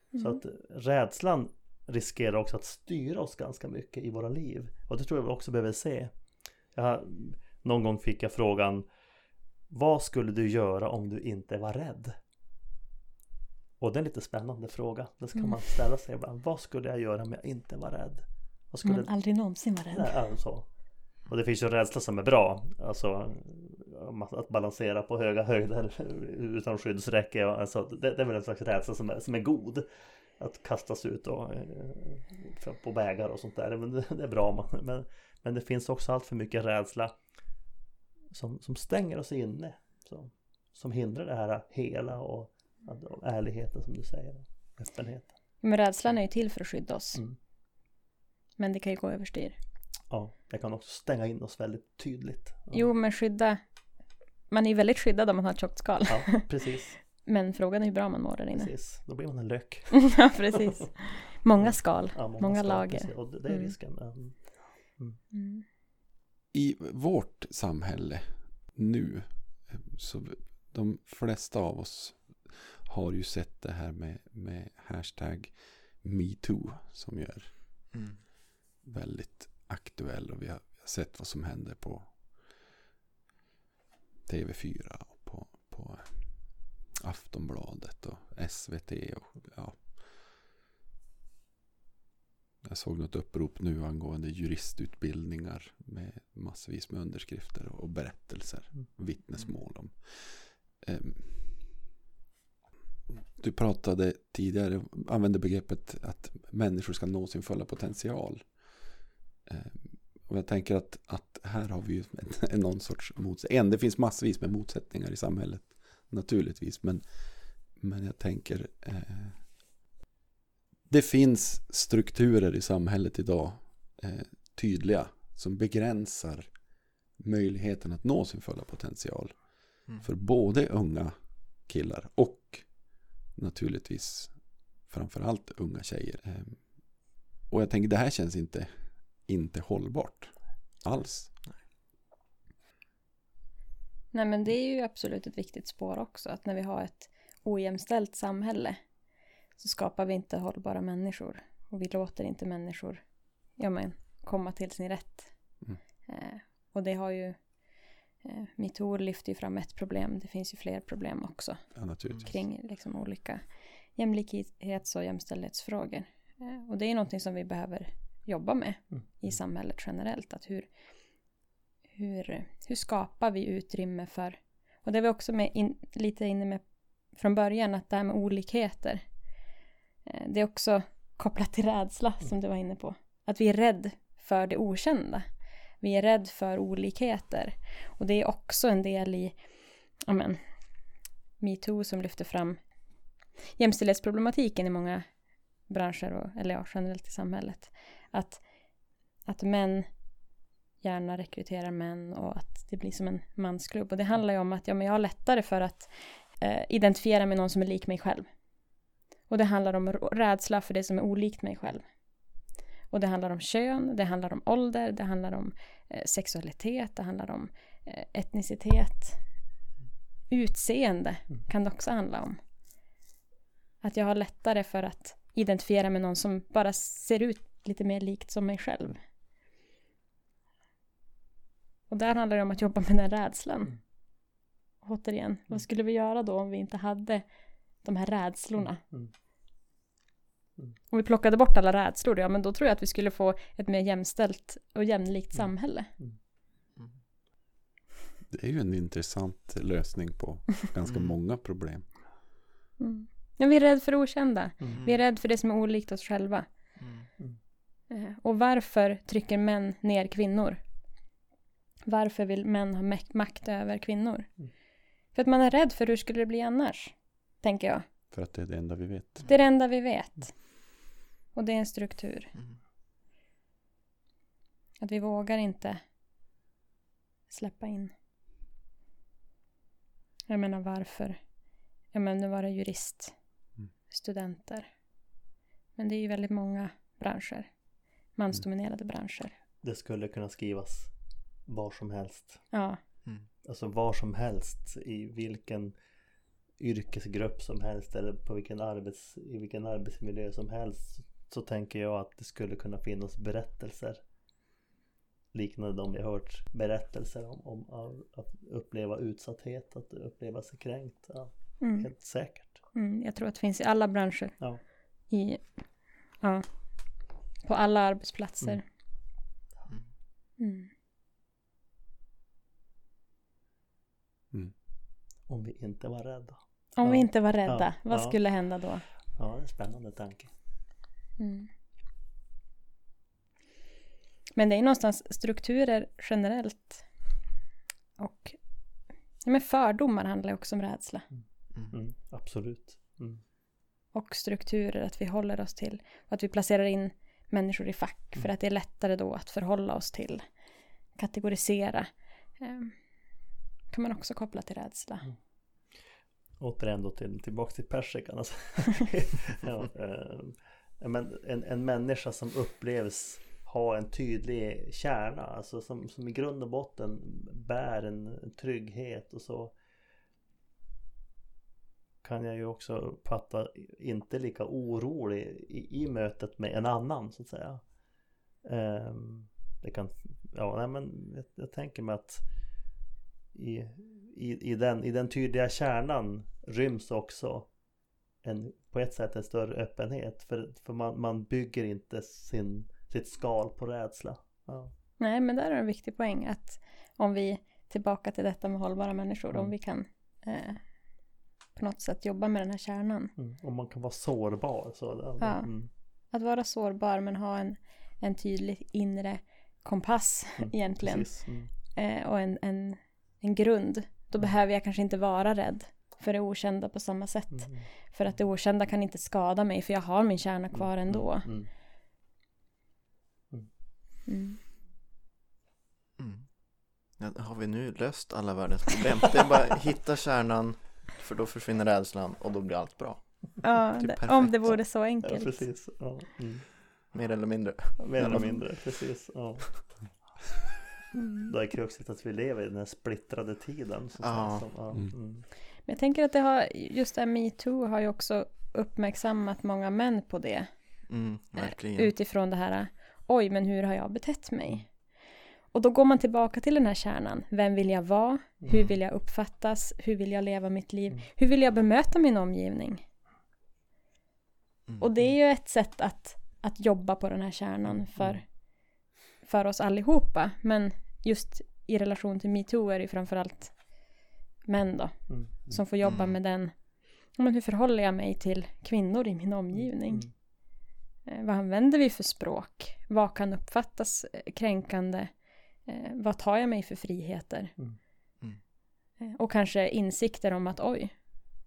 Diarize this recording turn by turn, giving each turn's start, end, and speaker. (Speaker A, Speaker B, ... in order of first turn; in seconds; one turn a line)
Speaker A: 0.1-6.1
Speaker A: 6.7-8.8
Speaker A: 9.7-12.1
Speaker A: 13.8-19.1
Speaker B: 18.8-20.2
Speaker A: 19.9-20.7
Speaker A: 21.3-29.9
Speaker A: 30.4-37.1
Speaker A: 38.3-45.3
Speaker B: 45.6-47.2
Speaker B: 48.6-49.5
Speaker A: 50.1-52.9
Speaker B: 52.7-53.6
Speaker B: 54.5-56.5
Speaker A: 56.0-57.0
Speaker B: 57.2-58.7
Speaker A: 58.5-60.3
Speaker B: 60.0-63.7
Speaker A: 61.6-64.4
Speaker B: 65.3-65.6
Speaker C: 66.5-77.9
Speaker D: 77.9-78.2
Speaker C: 78.8-82.5
Speaker C: 84.2-90.2
Speaker C: 92.6-101.7
Speaker C: 103.4-119.5
Speaker C: 120.9-126.5
Speaker C: 127.2-141.3
Speaker B: 144.1-148.8
Speaker B: 149.6-153.0
Speaker B: 153.6-155.5
Speaker B: 156.1-157.5
Speaker B: 158.2-163.4
Speaker C: 161.8-162.3
Speaker B: 163.9-170.7
Speaker B: 171.9-179.0
Speaker B: 180.1-185.2
Speaker B: 185.8-189.3
Speaker B: 190.0-190.4
Speaker B: 191.4-192.6
Speaker B: 193.6-195.0
Speaker B: 195.7-198.4
Speaker B: 199.2-199.9
Speaker B: 200.8-208.3
Speaker B: 209.3-211.8
Speaker B: 212.9-219.2
Speaker B: 220.3-222.4
Speaker B: 223.8-229.0
Speaker B: 231.9-233.8
Speaker B: 234.8-237.2
Speaker B: 237.8-238.8
Speaker A: 238.6-239.1
Speaker B: 240.9-245.9
Speaker A: 245.3-246.2
Speaker C: 248.3-251.9
Speaker D: 250.8-251.2
Speaker B: 252.8-256.5
Speaker D: 254.7-255.0
Speaker D: 256.8-257.1
Speaker B: 257.9-260.6
Speaker B: 261.9-264.3
Speaker B: 265.1-267.8
Speaker C: 268.1-269.2
Speaker B: 269.3-270.4
Speaker B: 271.3-272.3
Speaker B: 274.8-275.8
Speaker B: 277.3-277.9
Speaker B: 280.3-281.2
Speaker B: 281.9-283.1
Speaker B: 283.9-284.7
Speaker B: 285.8-287.5
Speaker B: 288.1-289.3
Speaker A: 289.6-290.9
Speaker A: 291.5-292.5
Speaker B: 292.5-292.8
Speaker A: 293.4-295.7
Speaker A: 296.6-304.0
Speaker A: 305.3-312.6
Speaker B: 311.6-311.9
Speaker B: 312.7-314.4
Speaker B: 315.1-315.6
Speaker B: 316.2-316.5
Speaker B: 317.4-318.6
Speaker B: 320.4-320.7
Speaker A: 325.3-328.2
Speaker B: 326.8-328.8
Speaker A: 329.2-330.3
Speaker B: 331.2-331.5
Speaker B: 334.4-336.9
Speaker B: 338.0-338.4
Speaker B: 339.2-341.1
Speaker A: 341.7-343.2
Speaker B: 343.9-350.2
Speaker B: 350.9-352.7
Speaker B: 353.7-355.1
Speaker A: 356.4-369.5
Speaker A: 372.0-377.6
Speaker A: 378.4-382.2
Speaker A: 383.3-387.5
Speaker A: 388.2-394.7
Speaker B: 395.0-400.6
Speaker B: 401.6-403.1
Speaker A: 403.2-405.7
Speaker B: 405.2-405.5
Speaker B: 406.1-411.1
Speaker A: 410.4-411.5
Speaker B: 411.8-421.3
Speaker A: 417.3-417.7
Speaker A: 420.5-421.5
Speaker B: 424.1-424.4
Speaker D: 426.0-426.3
Speaker D: 427.0-434.6
Speaker B: 433.4-435.4
Speaker A: 435.0-436.6
Speaker D: 436.9-438.4
Speaker A: 437.8-439.7
Speaker B: 438.0-438.4
Speaker B: 440.9-441.3
Speaker A: 441.2-445.2
Speaker D: 444.0-444.5
Speaker B: 445.7-450.5
Speaker D: 450.9-451.9
Speaker B: 451.3-454.7
Speaker B: 455.5-462.8
Speaker B: 464.8-468.3
Speaker A: 467.7-468.2
Speaker B: 469.2-473.8
Speaker B: 474.5-476.5
Speaker A: 475.1-475.3
Speaker D: 475.8-476.2
Speaker B: 477.1-480.1
Speaker A: 479.6-480.1
Speaker B: 481.1-485.1
Speaker B: 485.6-487.5
Speaker B: 489.0-490.9